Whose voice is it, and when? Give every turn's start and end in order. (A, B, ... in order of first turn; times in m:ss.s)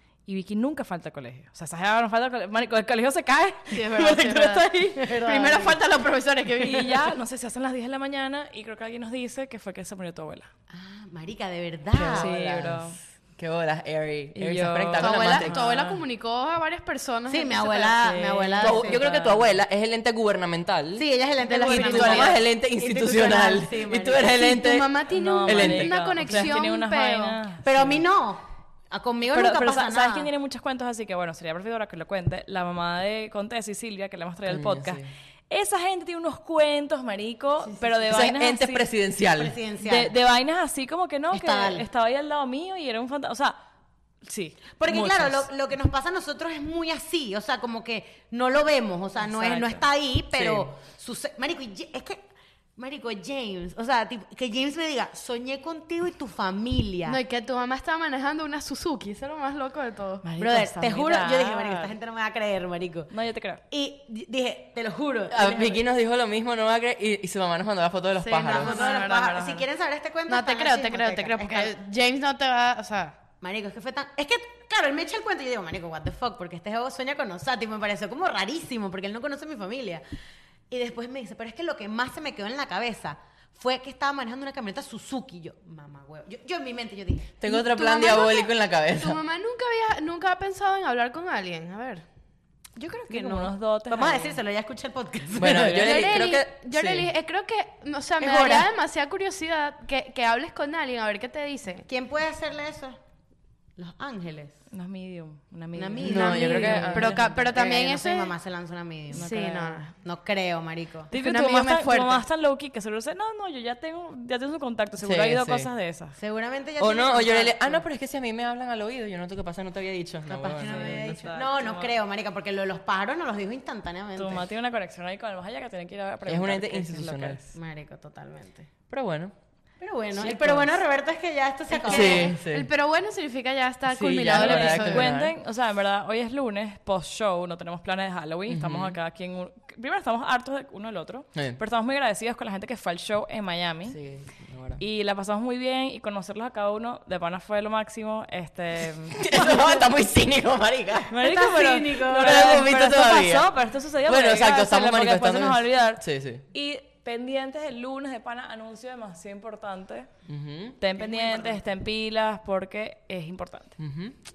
0:00.2-0:04.9 A
0:03.7-0:07.1 B
0:05.0-0:05.8 C
0:06.6-0:10.5 A
0:10.7-0:12.3 C
0:11.9-0:15.5 D
0:12.1-0:13.0 A
0:14.3-0:16.0 A
0:15.0-0:18.0 B
0:17.3-0:19.0 C
0:18.0-0:19.5 A
0:18.6-0:21.0 D
0:21.0-0:24.3 C
0:21.4-0:22.4 B
0:21.7-0:26.5 D
0:24.2-0:27.4 B
0:25.1-0:28.0 A
0:27.6-0:30.3 C
0:29.3-0:38.9 A
0:34.4-0:35.1 D
0:37.7-0:38.1 C
0:38.1-0:39.6 D
0:39.4-0:40.1 C
0:39.8-0:43.6 A
0:41.3-0:41.8 C
0:44.2-0:45.5 A
0:44.8-0:52.2 C
0:49.2-0:49.8 A
0:50.3-0:50.7 D
0:52.8-0:57.2 C
0:57.0-1:00.3 B
1:00.2-1:01.9 A
1:00.4-1:03.1 C
1:03.1-1:03.6 A
1:03.7-1:05.8 C
1:05.3-1:08.8 D
1:08.2-1:09.6 B
1:08.4-1:11.7 C
1:10.3-1:13.2 B
1:13.4-1:20.0 C
1:20.7-1:27.3 C
1:27.4-1:29.2 D
1:27.4-1:32.0 B
1:32.8-1:34.4 A
1:33.1-1:33.5 B
1:33.9-1:36.1 C
1:35.4-1:37.1 D
1:35.7-1:41.9 B
1:38.2-1:38.7 C
1:41.9-1:43.0 C
1:43.8-1:44.6 C
1:44.7-1:47.3 A
1:45.7-1:49.4 C
1:46.0-1:47.2 D
1:46.0-1:48.3 B
1:49.1-1:49.9 B
1:49.1-1:49.8 A
1:49.9-1:51.1 C
1:51.1-1:56.2 A
1:51.1-1:52.2 B
1:55.0-1:55.7 D
1:56.2-1:57.8 C
1:56.8-2:01.3 D
2:00.3-2:04.4 C
2:00.6-2:01.9 A
2:04.2-2:07.5 A
2:06.2-2:07.4 D
2:07.5-2:08.7 C
2:08.9-2:09.3 D
2:09.8-2:12.3 C
2:10.2-2:10.6 D
2:10.2-2:10.6 A
2:11.7-2:15.1 B
2:11.9-2:12.7 D
2:13.9-2:15.3 D
2:14.3-2:24.0 A
2:18.5-2:19.0 D
2:23.9-2:24.8 D
2:24.8-2:29.8 A
2:29.1-2:31.2 D
2:31.1-2:40.1 A
2:31.2-2:32.4 C
2:32.1-2:33.5 D
2:34.0-2:36.4 D
2:40.3-2:40.8 D
2:40.8-2:43.8 A
2:41.0-2:41.6 C
2:43.8-2:44.2 D